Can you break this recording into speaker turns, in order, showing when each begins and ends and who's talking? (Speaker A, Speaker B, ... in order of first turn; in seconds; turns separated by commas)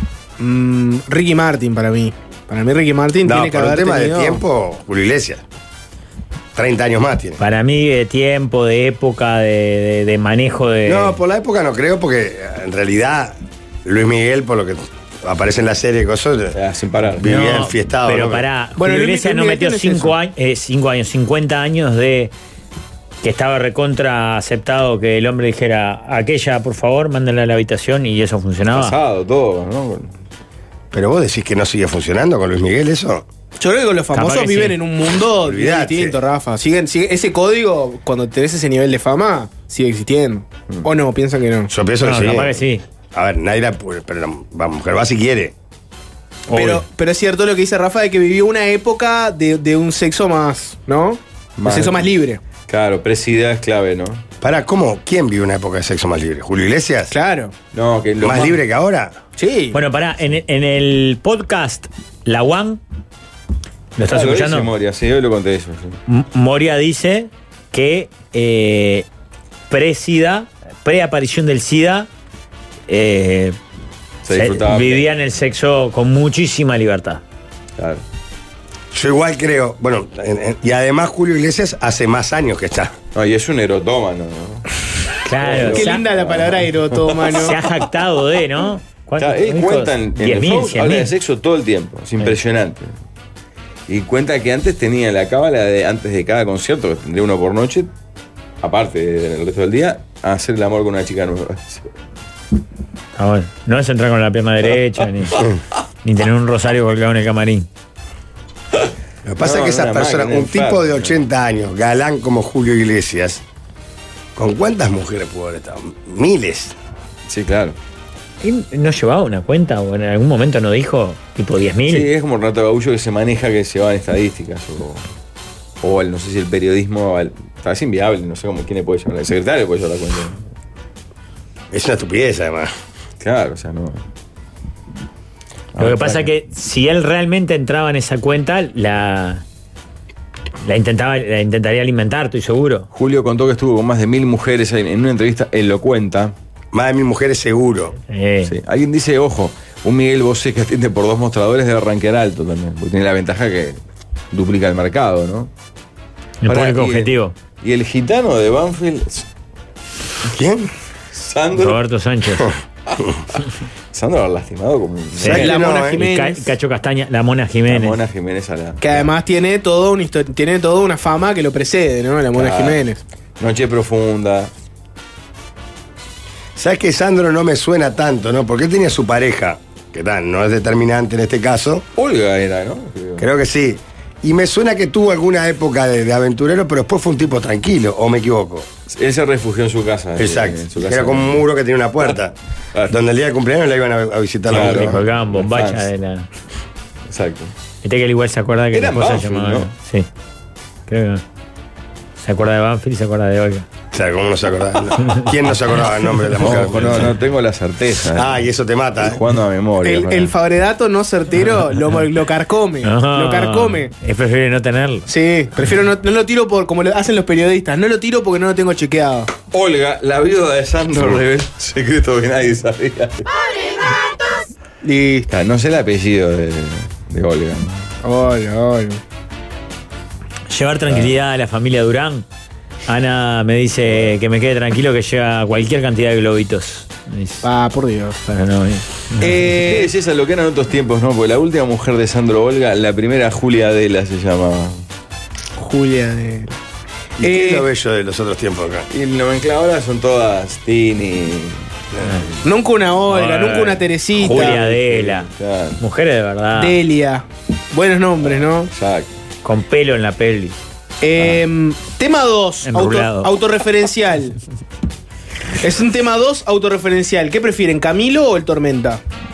Speaker A: 0.4-4.4, Speaker B: 3.2-5.4, Speaker B: 6.5-7.4, Speaker C: 7.4-11.2, Speaker B: 10.9-16.6, Speaker D: 16.5-17.2, Speaker B: 17.1-18.4, Speaker C: 17.2-22.3, Speaker A: 18.8-20.2, Speaker C: 23.2-28.9, Speaker D: 28.7-30.1, Speaker B: 30.9-33.2, Speaker A: 33.6-41.7, Speaker C: 34.1-34.8, Speaker B: 35.4-36.2, Speaker B: 41.7-42.5, Speaker C: 42.0-42.8, Speaker B: 43.1-45.5, Speaker C: 46.5-46.8, Speaker A: 46.5-52.4, Speaker D: 51.6-52.1, Speaker D: 52.7-54.2, Speaker B: 54.4-57.1, Speaker A: 57.1-57.5, Speaker D: 57.7-58.6, Speaker B: 58.2-59.2, Speaker A: 59.4-59.8, Speaker C: 59.7-62.8, Speaker C: 64.0-64.7, Speaker D: 64.1-66.0, Speaker C: 66.1-69.1, Speaker C: 69.7-72.1, Speaker C: 72.9-73.6, Speaker D: 74.2-75.1, Speaker C: 74.3-77.2, Speaker D: 77.8-78.0, Speaker B: 78.9-83.0, Speaker D: 83.1-84.7, Speaker C: 85.2-86.0, Speaker D: 85.4-87.6, Speaker A: 85.6-87.6, Speaker C: 87.3-91.1, Speaker D: 89.2-92.9, Speaker D: 93.9-97.9, Speaker D: 98.6-101.8, Speaker C: 103.2-105.4, Speaker C: 106.0-107.7, Speaker B: 109.2-113.4, Speaker D: 109.4-111.2, Speaker B: 114.4-116.8, Speaker D: 117.3-117.8, Speaker C: 118.4-122.1, Speaker D: 121.9-125.0, Speaker D: 125.8-130.4, Speaker B: 131.7-132.7, Speaker D: 133.2-134.0, Speaker D: 135.7-136.3, Speaker C: 135.8-139.4, Speaker C: 140.6-142.9, Speaker D: 142.9-146.3, Speaker B: 146.7-147.9, Speaker C: 148.1-148.5, Speaker D: 148.4-153.8, Speaker D: 154.3-155.5, Speaker C: 156.4-157.3, Speaker D: 156.5-159.3, Speaker B: 160.2-160.7, Speaker D: 161.1-161.8, Speaker C: 161.6-162.5, Speaker D: 163.9-165.5, Speaker B: 165.2-166.1, Speaker C: 165.2-168.0, Speaker A: 165.3-166.5, Speaker D: 167.7-169.1, Speaker A: 168.8-173.0, Speaker D: 172.3-172.8, Speaker D: 173.4-174.5, Speaker B: 176.6-181.8, Speaker D: 181.9-183.3, Speaker B: 183.2-188.7, Speaker D: 188.9-191.4, Speaker B: 190.2-192.3, Speaker B: 192.9-195.0, Speaker C: 194.5-196.3, Speaker D: 194.5-195.9, Speaker D: 197.1-197.5, Speaker C: 197.8-200.1, Speaker D: 198.7-199.7, Speaker C: 200.9-201.2, Speaker C: 202.2-203.7, Speaker B: 203.9-207.1, Speaker D: 206.4-210.3, Speaker B: 208.1-209.2, Speaker A: 209.8-213.9, Speaker C: 212.8-215.1, Speaker A: 215.1-219.3, Speaker D: 219.5-223.3, Speaker A: 224.8-225.3, Speaker D: 225.3-227.9, Speaker A: 228.0-229.0, Speaker C: 230.5-232.3, Speaker C: 232.9-237.4, Speaker D: 233.9-234.1, Speaker A: 237.4-238.2, Speaker C: 238.3-239.3, Speaker A: 239.2-239.9, Speaker D: 239.4-244.8, Speaker A: 245.6-246.5, Speaker B: 247.2-248.9, Speaker A: 247.2-247.7, Speaker D: 248.9-251.7, Speaker A: 252.4-254.6, Speaker C: 253.1-255.3, Speaker D: 254.2-255.8, Speaker C: 255.8-256.8, Speaker A: 256.6-258.7, Speaker D: 258.2-259.1, Speaker C: 259.4-260.6, Speaker A: 261.0-264.4, Speaker C: 262.7-263.3, Speaker A: 265.6-269.0